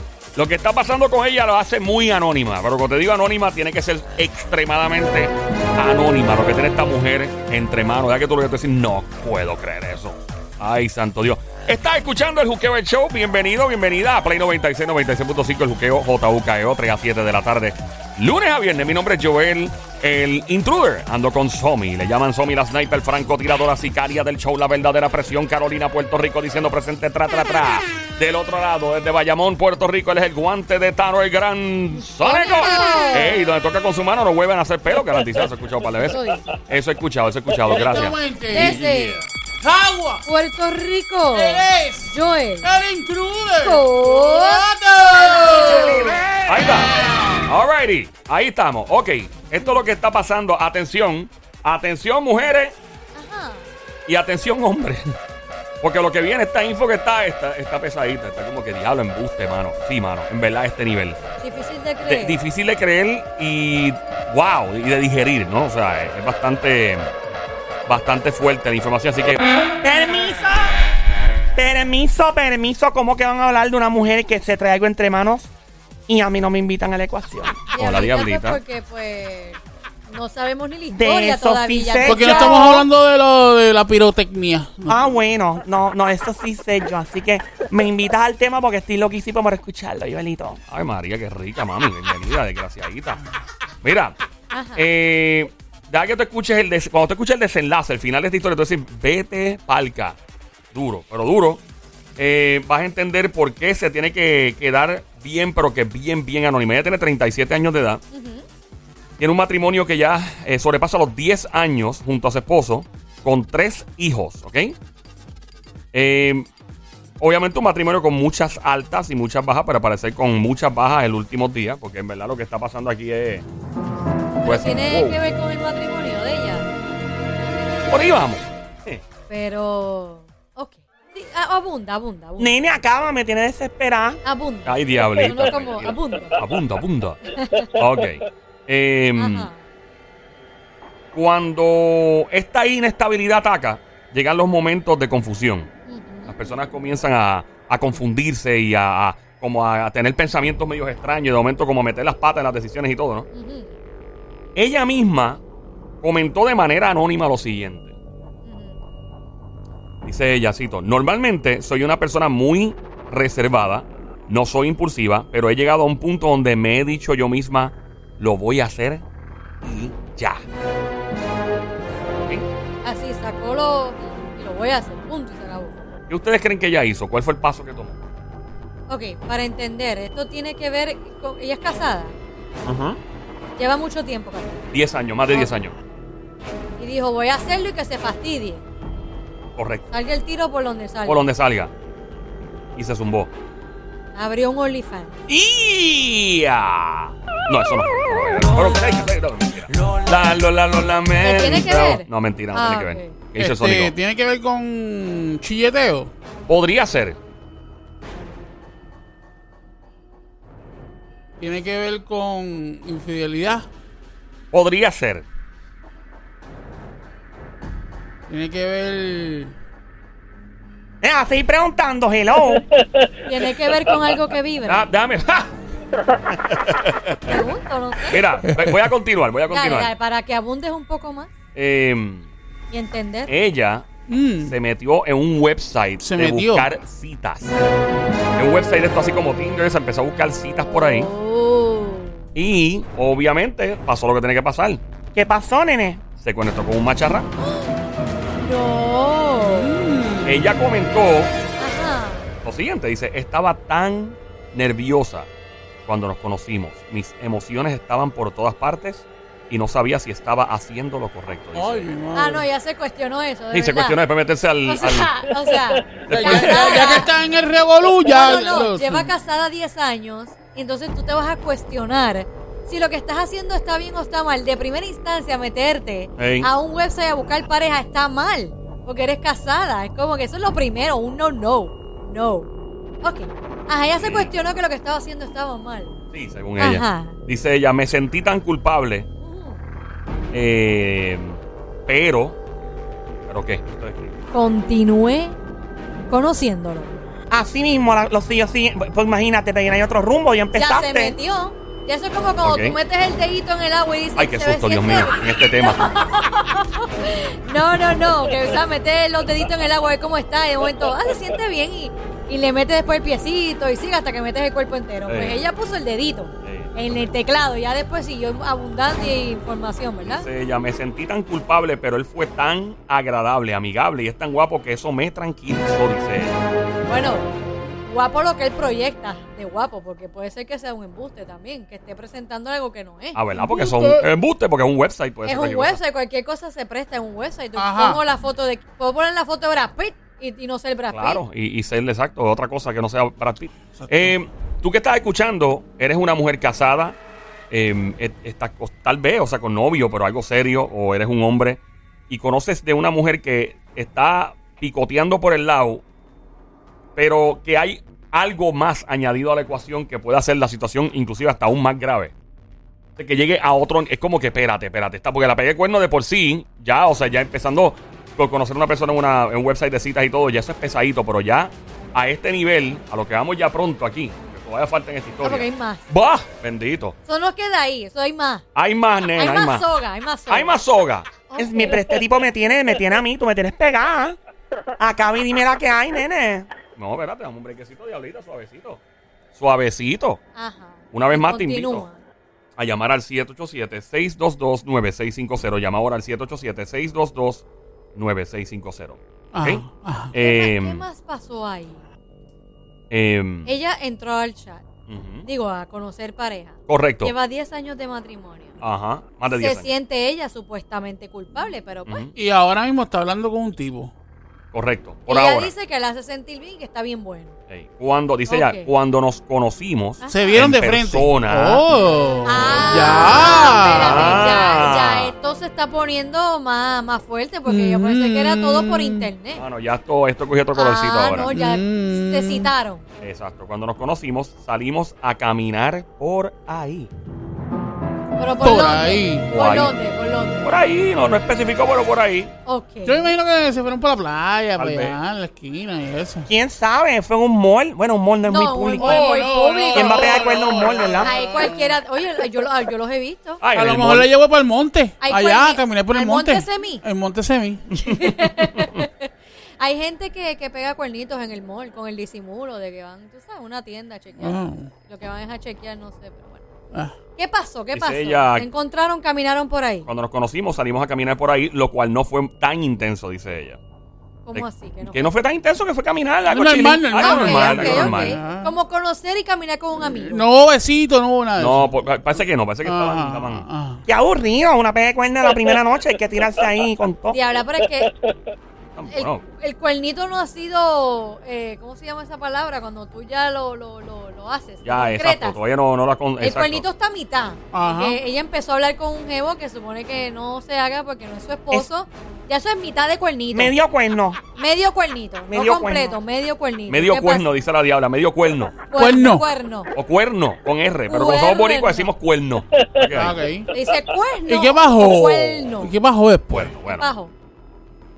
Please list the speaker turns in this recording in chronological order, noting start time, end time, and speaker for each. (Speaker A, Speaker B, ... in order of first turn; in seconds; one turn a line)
Speaker A: 0.3-39.3
Speaker B: 32.0-33.4
Speaker B: 36.1-36.5
Speaker C: 37.6-38.8
Speaker B: 38.5-39.2
Speaker C: 39.6-40.3
Speaker B: 40.3-42.7
Speaker C: 41.3-47.5
Speaker B: 43.6-46.2
Speaker A: 45.5-52.7
Speaker B: 53.1-53.7
Speaker A: 54.1-55.1
Speaker A: 55.8-61.3
Speaker B: 61.4-62.4
Speaker A: 62.0-67.1
Speaker A: 67.9-69.4
Speaker D: 69.8-70.8
Speaker D: 71.5-75.5
Speaker D: 76.1-77.6
Speaker B: 77.7-82.8
Speaker A: 77.8-78.6
Speaker D: 80.9-82.8
Speaker C: 82.0-85.0
Speaker D: 84.9-90.6
Speaker A: 90.7-93.2
Speaker A: 93.8-94.2
Speaker B: 94.5-94.8
Speaker A: 94.8-100.2
Speaker A: 100.7-101.6
Speaker A: 102.2-108.0
Speaker B: 108.1-108.4
Speaker A: 109.2-114.7
Speaker A: 115.9-116.5
Speaker A: 117.2-123.4
Speaker B: 124.3-126.7
Speaker A: 124.4-125.2
Speaker A: 127.9-129.0
Speaker B: 129.3-132.5
Speaker D: 132.4-134.2
Speaker B: 134.2-136.4
Speaker A: 134.7-139.5
Speaker B: 137.2-137.7
Speaker B: 139.2-139.6
Speaker A: 141.1-145.7
Speaker B: 145.9-146.3
Speaker A: 146.3-153.3
Speaker B: 153.3-153.7
Speaker A: 154.6-155.4
Speaker A: 156.0-157.9
Speaker B: 158.4-158.8
Speaker A: 160.0-169.0
Speaker A: 169.6-170.4
Speaker B: 172.8-175.8
Speaker A: 176.1-178.0
Speaker B: 178.9-182.1
Speaker A: 182.6-183.0
Speaker B: 183.6-184.6
Speaker A: 184.7-185.8
Speaker B: 186.8-188.6
Speaker A: 189.6-189.9
Speaker B: 189.9-191.2
Speaker A: 191.1-191.7
Speaker A: 192.8-193.3
Speaker B: 194.1-195.2
Speaker A: 195.3-203.9
Speaker B: 201.2-203.1
Speaker C: 203.4-206.1
Speaker A: 206.5-207.2
Speaker C: 211.4-213.7
Speaker A: 214.5-215.2
Speaker C: 218.3-219.5
Speaker D: 221.0-222.6
Speaker A: 222.8-223.1
Speaker B: 223.3-224.9
Speaker A: 224.6-225.5
Speaker A: 226.1-227.2
Speaker B: 227.2-228.2
Speaker A: 228.1-229.9
Speaker C: 228.5-228.9
Speaker B: 229.5-231.3
Speaker A: 231.5-232.3
Speaker B: 232.7-233.3
Speaker A: 233.3-233.8
Speaker C: 234.1-234.6
Speaker A: 234.4-237.6
Speaker C: 236.0-236.7
Speaker A: 238.3-241.1
Speaker B: 240.7-242.2
Speaker A: 242.3-244.8
Speaker D: 245.1-246.0
Speaker A: 246.2-247.3
Speaker B: 247.4-247.7
Speaker B: 248.4-249.7
Speaker C: 249.4-250.5
Speaker A: 250.2-251.3
Speaker B: 251.6-252.3
Speaker A: 252.4-255.3
Speaker A: 255.9-261.9
Speaker C: 261.6-262.5
Speaker B: 262.1-264.0
Speaker A: 263.5-265.3
Speaker B: 264.6-267.1
Speaker A: 266.0-267.0
Speaker C: 266.1-269.1
Speaker B: 268.1-282.5
Speaker A: 276.2-276.5
Speaker B: 283.0-285.9
Speaker A: 284.0-284.3
Speaker A: 286.1-289.1
Speaker B: 286.6-287.2
Speaker B: 289.2-289.6
Speaker A: 290.3-292.4
Speaker A: 293.3-294.2
Speaker B: 294.3-295.4
Speaker B: 296.1-297.0
Speaker D: 297.3-301.2
Speaker B: 300.5-320.2
Speaker A: 302.4-302.8
Speaker A: 304.2-305.9
Speaker A: 315.1-315.4
Speaker A: 316.4-317.1
Speaker A: 320.1-326.4
Speaker B: 326.9-327.3
Speaker B: 327.9-333.2
Speaker A: 333.1-335.8
Speaker C: 333.3-334.1
Speaker B: 335.2-341.2
Speaker C: 337.6-338.0
Speaker A: 340.9-347.0
Speaker C: 343.7-344.2
Speaker A: 347.5-355.8
Speaker A: 357.0-362.1
Speaker A: 363.0-377.0
Speaker B: 375.2-375.8
Speaker B: 377.1-378.4
Speaker A: 378.6-379.7
Speaker B: 379.2-380.6
Speaker A: 380.3-381.1
Speaker B: 381.3-381.8
Speaker D: 381.4-384.2
Speaker D: 384.8-386.5
Speaker A: 386.8-388.8
Speaker A: 389.4-390.2
Speaker B: 390.4-392.0
Speaker A: 390.9-391.9
Speaker A: 392.6-397.4
Speaker A: 397.9-400.9
Speaker C: 399.3-400.1
Speaker B: 400.1-401.9
Speaker A: 402.9-403.5
Speaker B: 403.5-404.6
Speaker A: 404.9-405.3
Speaker B: 405.2-408.6
Speaker A: 406.7-407.1
Speaker A: 408.6-409.7
Speaker B: 409.3-412.1
Speaker A: 411.9-412.1
Speaker C: 412.1-413.9
Speaker A: 414.5-415.5
Speaker B: 415.1-417.4
Speaker A: 417.5-421.6
Speaker B: 418.3-418.7
Speaker B: 420.0-420.4
Speaker C: 420.1-424.4
Speaker B: 422.2-429.4
Speaker A: 422.4-425.1
Speaker C: 427.5-429.1
Speaker A: 429.4-431.3
Speaker B: 430.5-432.9
Speaker C: 431.3-432.5
Speaker A: 433.0-436.9
Speaker B: 438.2-440.5
Speaker C: 438.4-439.3
Speaker A: 439.3-439.8
Speaker A: 440.4-442.3
Speaker B: 442.5-443.1
Speaker C: 442.9-446.3
Speaker A: 444.6-445.0
Speaker D: 446.3-449.2
Speaker B: 448.3-453.4
Speaker C: 448.8-451.8
Speaker D: 449.7-451.1
Speaker A: 453.4-454.1
Speaker C: 453.5-457.7
Speaker B: 455.0-456.8
Speaker A: 457.8-458.9
Speaker B: 457.8-466.4
Speaker C: 464.2-464.7
Speaker B: 467.2-469.9
Speaker A: 467.7-468.5
Speaker A: 469.9-473.6
Speaker B: 474.2-475.1
Speaker A: 474.3-478.2
Speaker C: 476.2-478.6
Speaker B: 477.0-480.2
Speaker C: 480.1-481.8
Speaker A: 481.4-483.5
Speaker C: 482.6-483.8
Speaker D: 483.9-487.2
Speaker B: 487.1-487.9
Speaker A: 488.8-489.2
Speaker B: 488.9-495.4
Speaker A: 494.6-496.6
Speaker B: 496.2-503.5
Speaker C: 497.5-498.0
Speaker D: 503.3-504.2
Speaker B: 504.4-507.2
Speaker D: 505.3-505.9
Speaker A: 506.7-508.6
Speaker B: 508.7-509.7
Speaker C: 508.8-509.2
Speaker A: 509.7-513.2
Speaker B: 510.9-511.9
Speaker C: 512.9-513.5
Speaker B: 513.5-515.7
Speaker C: 514.2-516.6
Speaker A: 516.3-516.9
Speaker B: 516.6-517.1